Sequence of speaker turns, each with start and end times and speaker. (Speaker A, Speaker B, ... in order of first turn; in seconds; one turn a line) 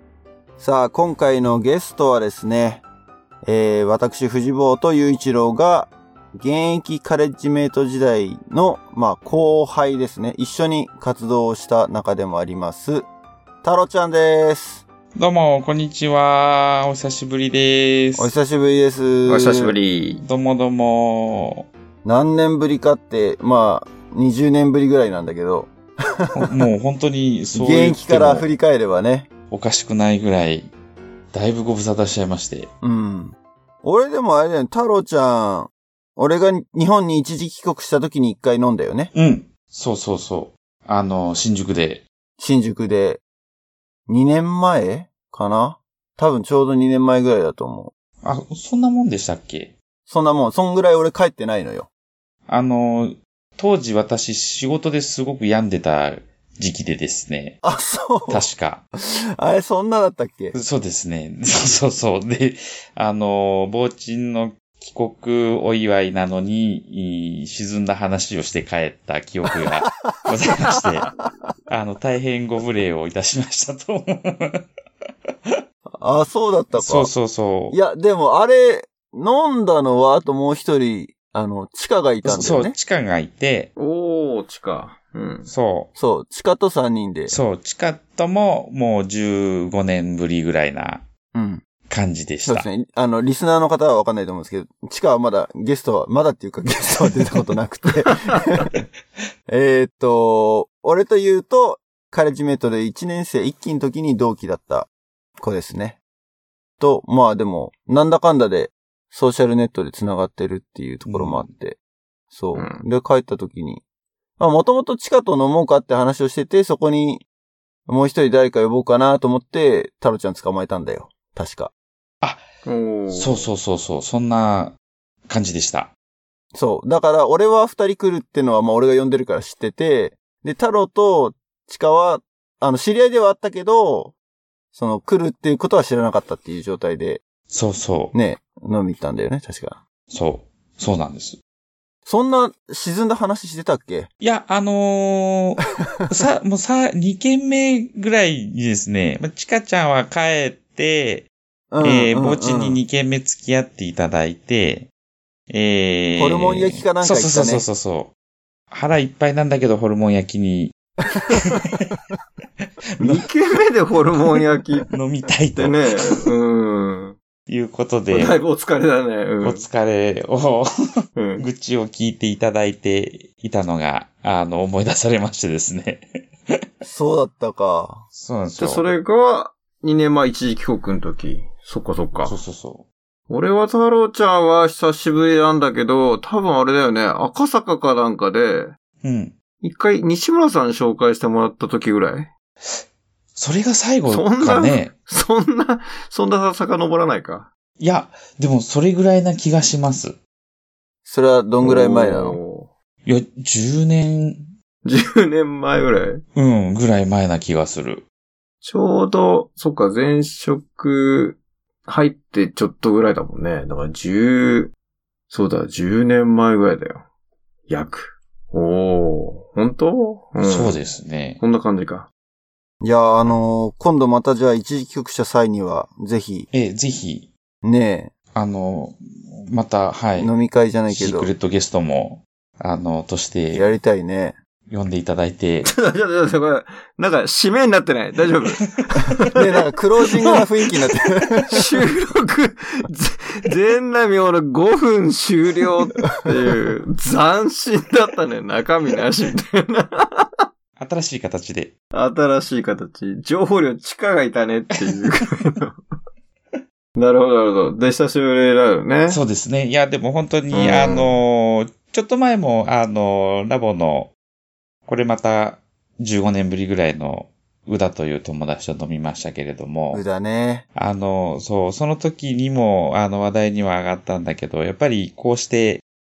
Speaker A: 0.6-2.8
Speaker A: 3.4-13.1
Speaker A: 13.6-14.8
Speaker B: 15.1-18.3
Speaker A: 18.1-19.7
Speaker C: 19.3-20.2
Speaker B: 20.2-21.7
Speaker A: 22.0-25.7
Speaker B: 26.3-28.5
Speaker A: 27.5-29.3
Speaker B: 29.5-30.7
Speaker B: 31.3-32.7
Speaker A: 32.8-39.1
Speaker B: 39.1-42.0
Speaker A: 42.4-43.2
Speaker A: 44.1-47.9
Speaker B: 48.2-49.7
Speaker A: 50.1-51.9
Speaker B: 52.5-57.6
Speaker A: 57.6-58.5
Speaker B: 58.3-58.8
Speaker A: 59.4-60.5
Speaker B: 60.5-71.1
Speaker B: 71.7-74.7
Speaker B: 75.3-75.6
Speaker A: 75.9-77.1
Speaker B: 76.7-77.8
Speaker A: 77.7-82.8
Speaker B: 82.2-83.7
Speaker C: 83.8-85.5
Speaker B: 85.5-85.9
Speaker A: 85.9-87.3
Speaker B: 87.3-91.0
Speaker A: 91.3-91.6
Speaker B: 91.9-92.7
Speaker A: 92.4-98.7
Speaker A: 99.5-106.0
Speaker A: 106.8-111.8
Speaker B: 111.0-111.5
Speaker A: 112.3-113.8
Speaker C: 112.5-112.8
Speaker A: 114.4-117.2
Speaker A: 117.9-121.7
Speaker C: 122.6-123.5
Speaker B: 123.1-124.8
Speaker B: 125.3-125.9
Speaker A: 126.5-134.1
Speaker A: 134.7-137.2
Speaker B: 137.5-138.1
Speaker A: 138.1-139.8
Speaker B: 140.1-141.4
Speaker A: 142.1-144.1
Speaker B: 144.2-151.3
Speaker A: 151.7-152.8
Speaker B: 151.8-154.9
Speaker B: 155.5-158.1
Speaker A: 156.2-157.6
Speaker B: 158.7-160.7
Speaker B: 161.3-161.9
Speaker C: 163.0-164.9
Speaker B: 164.2-165.8
Speaker C: 165.5-167.2
Speaker B: 167.5-168.4
Speaker C: 168.1-169.7
Speaker B: 169.4-170.7
Speaker C: 171.2-171.4
Speaker B: 171.4-176.6
Speaker A: 176.8-178.0
Speaker B: 178.1-178.9
Speaker C: 178.6-182.3
Speaker B: 182.2-182.8
Speaker C: 183.3-188.7
Speaker B: 189.0-189.3
Speaker C: 189.6-192.3
Speaker B: 193.3-194.9
Speaker C: 194.1-197.5
Speaker B: 197.8-200.2
Speaker A: 201.0-202.4
Speaker C: 201.6-202.7
Speaker B: 203.0-204.5
Speaker C: 204.8-206.2
Speaker B: 206.3-208.0
Speaker C: 208.6-214.7
Speaker C: 215.3-217.0
Speaker C: 217.7-220.8
Speaker B: 220.4-221.4
Speaker C: 221.4-222.1
Speaker A: 222.8-226.5
Speaker B: 226.5-227.3
Speaker A: 227.6-228.1
Speaker B: 228.3-230.3
Speaker A: 230.2-231.3
Speaker B: 230.9-233.7
Speaker A: 233.5-234.3
Speaker B: 234.7-235.7
Speaker C: 235.6-239.4
Speaker A: 239.3-241.6
Speaker C: 241.5-250.3
Speaker B: 250.8-251.7
Speaker C: 251.9-255.8
Speaker C: 257.0-259.2
Speaker B: 259.1-264.1
Speaker C: 260.5-261.2
Speaker B: 264.9-270.0
Speaker A: 269.9-270.6
Speaker B: 270.7-275.8